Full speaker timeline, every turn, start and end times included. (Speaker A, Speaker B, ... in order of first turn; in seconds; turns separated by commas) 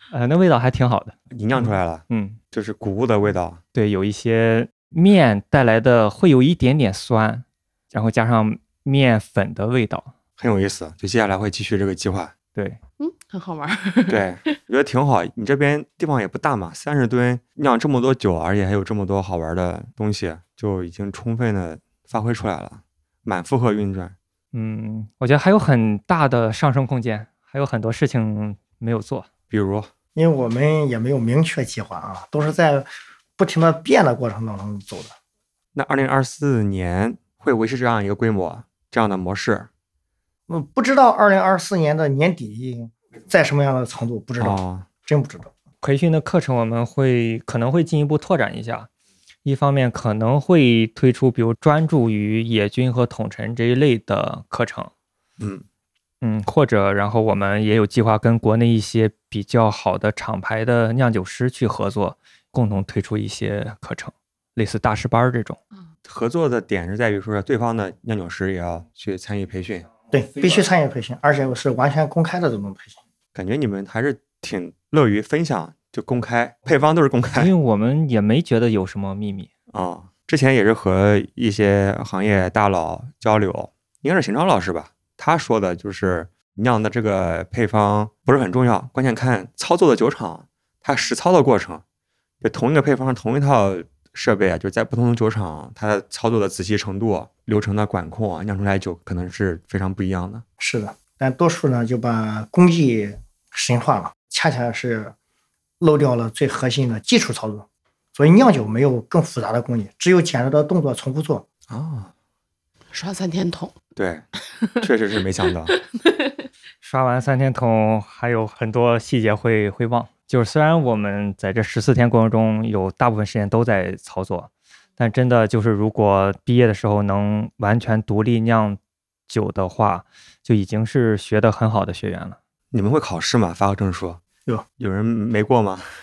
Speaker A: 0.1-1.1, Speaker B: 1.3-3.6, Speaker A: 2.1-2.4, Speaker A: 3.7-10.1, Speaker B: 10.4-12.3, Speaker A: 12.5-12.8, Speaker C: 13.0-14.5, Speaker B: 14.1-24.1, Speaker A: 24.5-29.3, Speaker B: 29.5-29.9, Speaker D: 30.1-35.1, Speaker B: 35.7-39.7, Speaker D: 40.5-45.5, Speaker B: 44.4-44.9, Speaker A: 45.8-48.9, Speaker A: 49.4-54.9, Speaker B: 55.4-55.6, Speaker A: 56.2-65.6, Speaker B: 66.0-69.9, Speaker D: 70.1-73.0, Speaker B: 73.3-77.5, Speaker A: 77.3-79.5, Speaker B: 79.7-91.8, Speaker B: 92.4-100.4, Speaker D: 100.6-105.1, Speaker D: 105.8-111.5, Speaker B: 111.7-112.1, Speaker C: 112.9-113.8, Speaker B: 114.0-114.2, Speaker B: 114.8-115.8, Speaker C: 115.9-116.3, Speaker A: 116.8-132.4, Speaker B: 132.7-134.2, Speaker B: 134.8-135.9